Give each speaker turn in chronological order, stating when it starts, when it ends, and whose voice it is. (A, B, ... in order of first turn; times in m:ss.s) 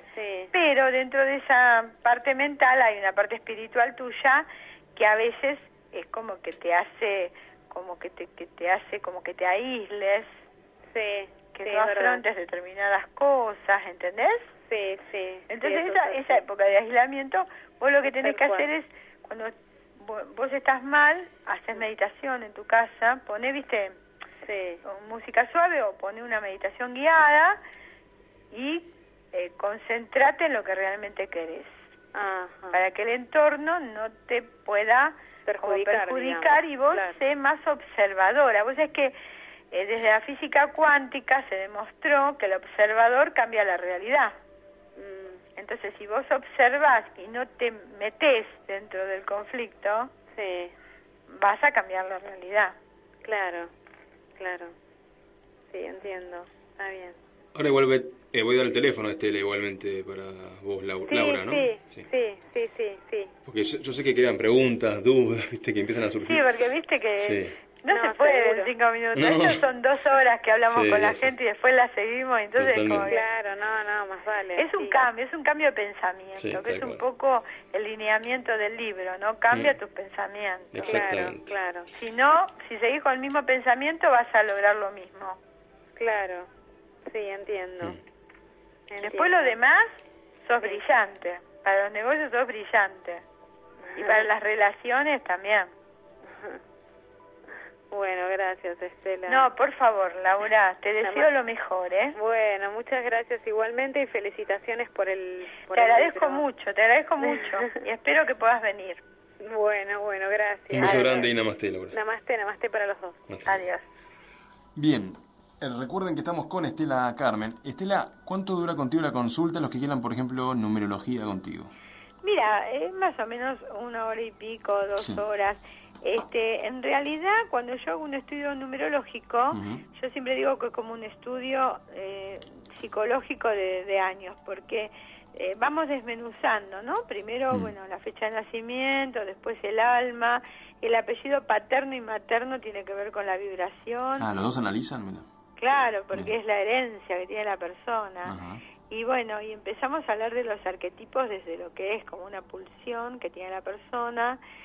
0:00.1-0:00.5 A
0:00.5-0:10.3 B
0:10.9-0:12.2 A
0:11.6-0:14.5 B
0:14.7-0:16.4 A
0:15.5-0:24.0 B
0:18.0-0:18.7 A
0:24.4-0:24.8 A
0:24.8-0:27.6 B
0:28.5-0:31.8 B
0:32.1-0:32.8 A
0:32.7-0:39.2 B
0:35.5-0:37.2 A
0:39.7-0:44.4 B
0:45.0-0:45.4 A
0:45.6-0:50.1 B
0:50.4-0:50.7 A
0:51.3-0:52.8 B
0:53.2-0:53.7 A
0:54.4-0:54.7 A
0:55.7-0:57.2 A
0:57.6-1:02.1 C
1:01.1-1:03.3 A
1:03.5-1:06.4 C
1:06.2-1:13.2 B
1:07.2-1:07.6 C
1:07.9-1:08.7 A
1:09.2-1:09.6 C
1:10.7-1:11.3 C
1:12.6-1:13.1 C
1:13.1-1:15.0 A
1:14.6-1:21.0 B
1:16.4-1:17.0 C
1:20.7-1:21.6 C
1:20.8-1:21.9 A
1:21.9-1:25.4 B
1:26.0-1:26.5 A
1:27.1-1:28.0 A
1:28.9-1:29.6 A
1:29.0-1:29.9 B
1:30.4-1:33.2 B
1:33.8-1:34.3 A
1:34.0-1:35.7 B
1:36.3-1:36.6 A
1:37.9-1:39.5 A
1:39.3-1:42.2 B
1:41.0-1:41.3 A
1:42.2-1:46.4 A
1:45.7-1:49.0 B
1:49.4-1:51.3 A
1:50.7-1:52.0 C
1:50.8-1:51.2 B
1:51.9-1:53.2 A
1:53.3-1:53.7 C
1:53.5-1:53.8 B
1:54.8-2:01.7 C
2:02.2-2:24.3 B
2:09.5-2:09.8 C
2:24.2-2:25.2 C
2:25.6-2:28.4 B
2:28.2-2:28.6 C
2:28.9-2:34.4 B